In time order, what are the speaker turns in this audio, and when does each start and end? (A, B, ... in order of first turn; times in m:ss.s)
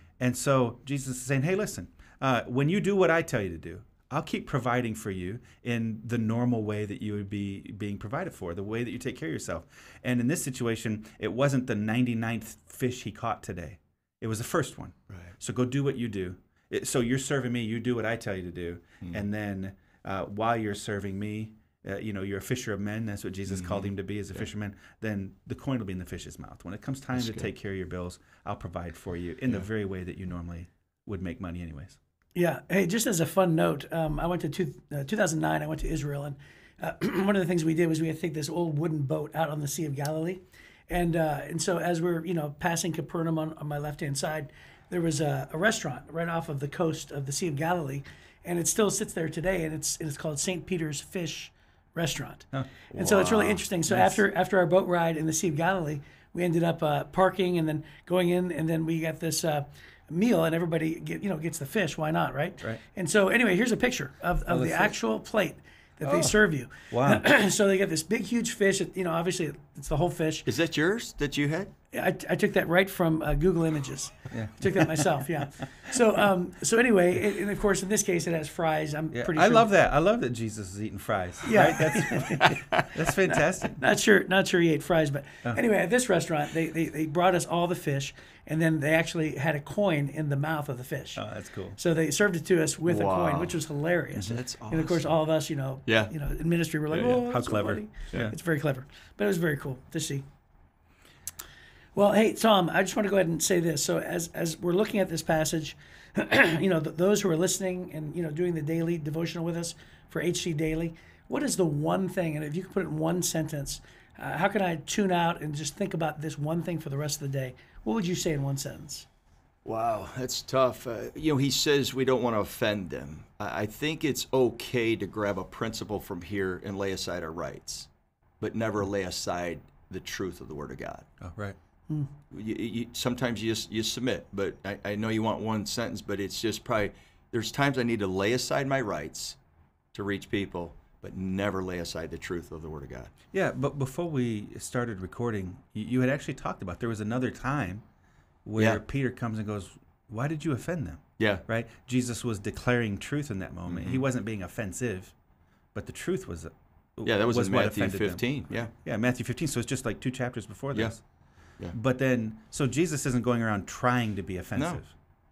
0:00.2-0:32.0 A
0:23.4-0:24.5 B
0:27.1-0:27.5 B
0:32.3-1:10.5 C
0:52.9-0:53.6 B
0:53.9-0:54.2 A
1:04.5-1:04.9 A
1:06.0-1:06.4 A
1:06.9-1:07.2 A
1:10.4-1:11.7 B
1:11.9-1:19.7 C
1:14.3-1:14.9 A
1:19.1-1:23.8 A
1:21.4-1:22.6 C
1:23.2-1:31.2 C
1:31.2-1:31.8 A
1:31.8-1:40.2 C
1:32.8-1:33.6 B
1:34.2-1:35.1 B
1:35.8-1:36.1 B
1:36.9-1:37.2 B
1:36.9-1:38.3 A
1:41.9-1:59.0 C
1:59.6-2:07.9 B
2:08.4-2:11.0 B
2:11.2-2:11.6 A
2:12.3-2:19.4 B
2:19.9-2:23.1 B
2:23.3-2:27.8 A
2:28.4-2:35.1 A
2:31.2-2:31.4 B
2:33.7-2:34.0 B
2:35.7-2:41.0 A
2:37.0-2:38.7 B
2:41.7-2:44.9 A